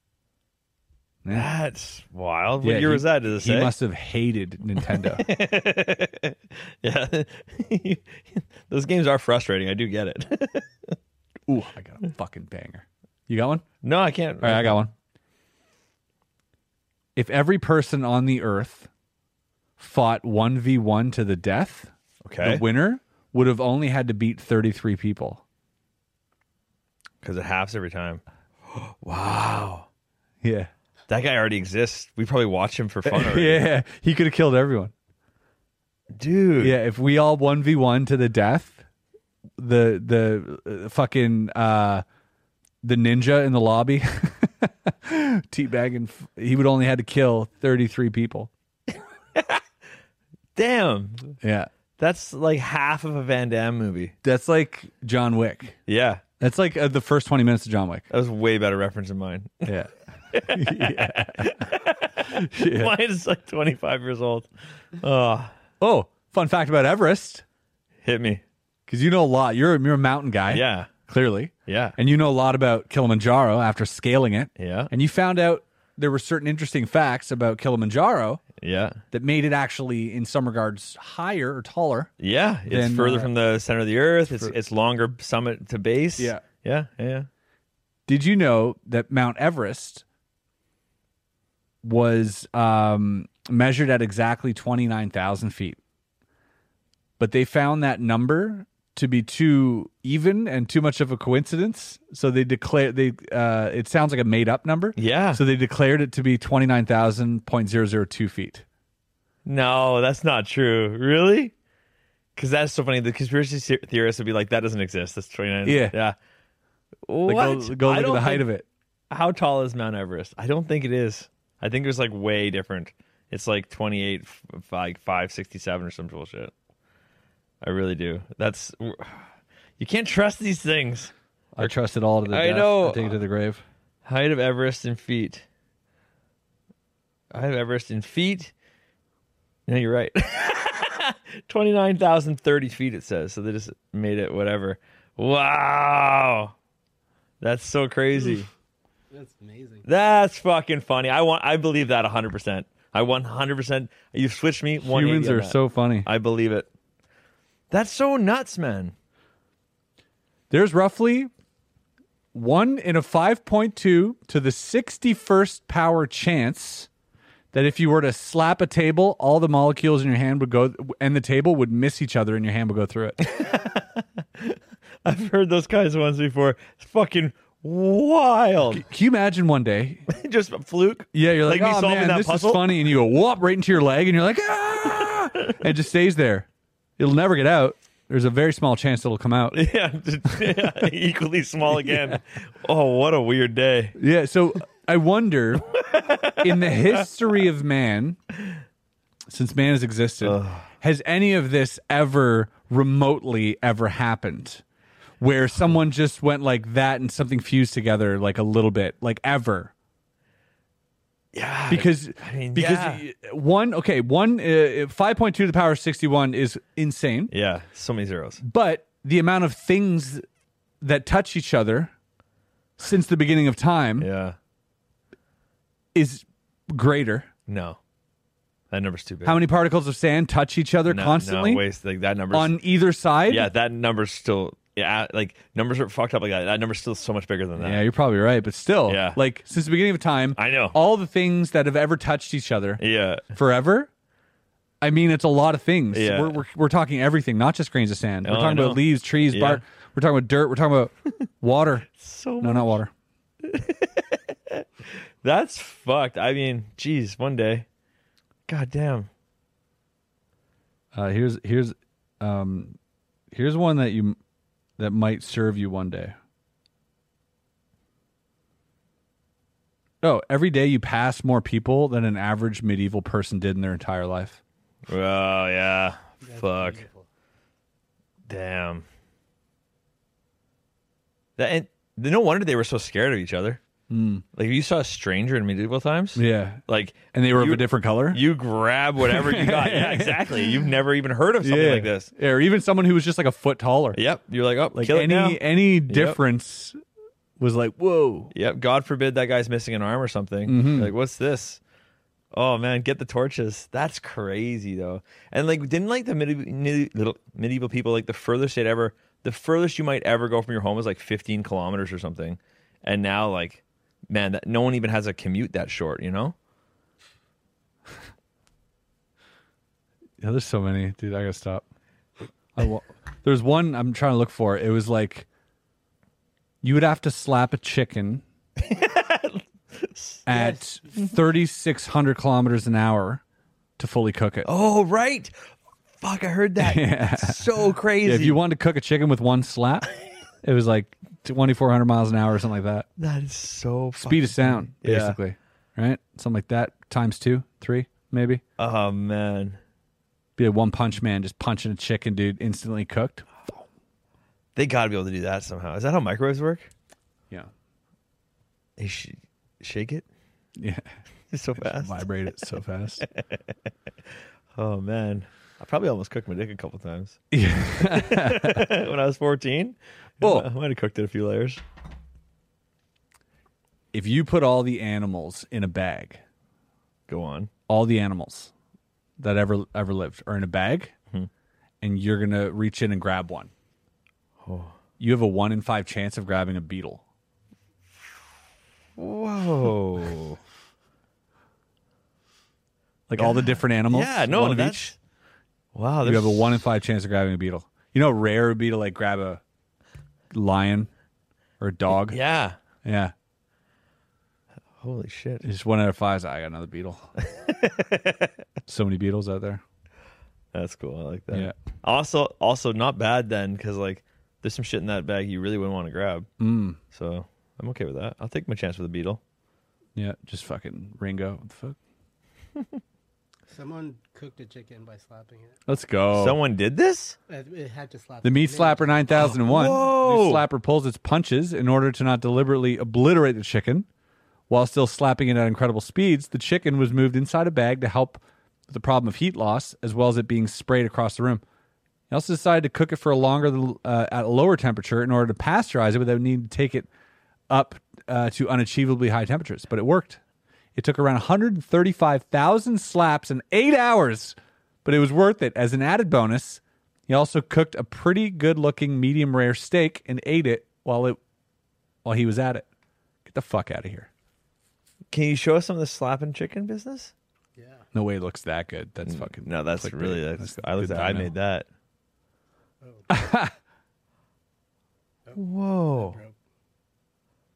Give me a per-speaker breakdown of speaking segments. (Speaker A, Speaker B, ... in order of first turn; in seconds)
Speaker A: 1.3-3.7, 4.8-10.9, 13.8-14.9, 22.2-22.6, 27.2-29.9, 31.1-33.6, 36.1-36.7, 49.3-49.6, 50.5-51.4, 52.0-54.1, 55.9-56.2, 58.1-59.7, 60.3-65.5, 68.0-68.4, 70.5-70.9, 71.7-72.0, 74.6-74.9, 78.6-79.0, 82.2-87.3, 105.0-105.4, 109.4-111.5, 112.3-116.2, 117.0-118.5, 119.1-126.5, 127.6-129.3, 129.8-131.7, 132.3-133.2, 134.0-135.4, 137.3-138.5, 139.7-146.5, 147.4-148.5, 149.8-156.7, 157.7-158.9, 173.2-178.8, 180.1-182.7, 189.5-193.9, 195.8-197.0, 200.2-200.7, 211.3-213.0, 217.3-218.4, 224.0-224.4, 227.5-227.8, 228.7-229.4, 230.9-232.6, 233.3-237.8, 238.9-239.2, 240.3-240.8, 242.8-243.2, 245.9-246.4, 248.2-249.6, 251.9-252.8, 253.4-257.6, 258.5-259.1, 274.9-276.8, 278.3-278.8, 281.4-283.6, 284.3-292.1, 293.9-296.2, 298.3-301.6, 302.3-316.3, 328.6-330.3, 334.4-335.3, 336.0-338.4, 343.0-345.2, 348.6-349.6, 354.5-356.7, 358.8-360.0, 361.3-362.1, 363.1-363.4, 364.5-367.2, 367.7-371.6, 377.1-377.5, 384.4-384.7, 389.0-390.4, 393.2-394.9, 395.7-396.6, 401.9-402.6, 404.8-405.4, 407.2-408.3, 410.5-416.3, 416.9-419.2, 426.1-427.2, 429.1-430.4, 465.1-467.1, 469.1-471.7, 475.3-476.2
Speaker B: 2.6-5.2, 11.5-13.7, 14.4-14.9, 17.1-18.9, 19.8-25.4, 30.4-30.7, 33.0-34.9, 36.6-38.8, 39.6-42.0, 42.8-48.5, 51.4-51.7, 54.2-55.8, 56.4-58.1, 59.6-61.6, 62.2-62.9, 65.8-67.4, 68.9-78.4, 79.1-82.1, 82.7-83.3, 84.3-84.5, 86.2-86.4, 88.1-90.0, 91.8-95.8, 97.2-108.6, 115.6-115.9, 117.2-118.7, 131.6-133.6, 154.8-156.1, 160.5-161.3, 162.3-166.9, 167.5-173.2, 178.7-180.1, 181.1-186.5, 187.0-189.6, 193.9-195.7, 196.4-198.2, 199.3-204.6, 205.2-209.7, 211.7-217.3, 218.4-220.2, 220.8-221.9, 222.8-224.1, 225.9-227.3, 229.2-231.6, 232.3-233.5, 237.6-242.8, 243.3-243.9, 244.8-252.9, 260.9-262.8, 263.3-264.2, 264.8-266.1, 270.0-274.4, 283.9-284.2, 286.1-288.2, 289.0-290.6, 291.4-294.0, 294.7-296.8, 297.4-298.3, 300.4-300.9, 320.2-321.6, 322.5-325.3, 326.6-328.2, 330.2-333.2, 333.8-334.5, 336.6-337.5, 338.0-339.9, 340.4-342.9, 344.0-348.4, 350.4-353.5, 360.6-360.9, 361.6-363.0, 367.3-368.7, 370.2-370.5, 373.9-376.2, 377.7-378.5, 379.2-380.9, 381.8-383.5, 385.0-387.0, 393.1-394.9, 396.0-399.4, 400.3-400.9, 401.6-402.2, 402.8-403.1, 405.4-407.1, 408.6-409.6, 416.4-416.8, 419.9-421.8, 425.7-426.4, 428.2-433.9, 434.5-441.4, 442.1-446.9, 447.5-450.2, 450.8-461.2, 462.0-462.7, 463.2-464.1, 467.9-471.3, 473.1-473.5
Speaker C: 149.1-149.9, 276.2-277.1, 423.5-425.6, 427.3-429.0, 467.6-467.8, 472.8-473.1, 475.2-476.3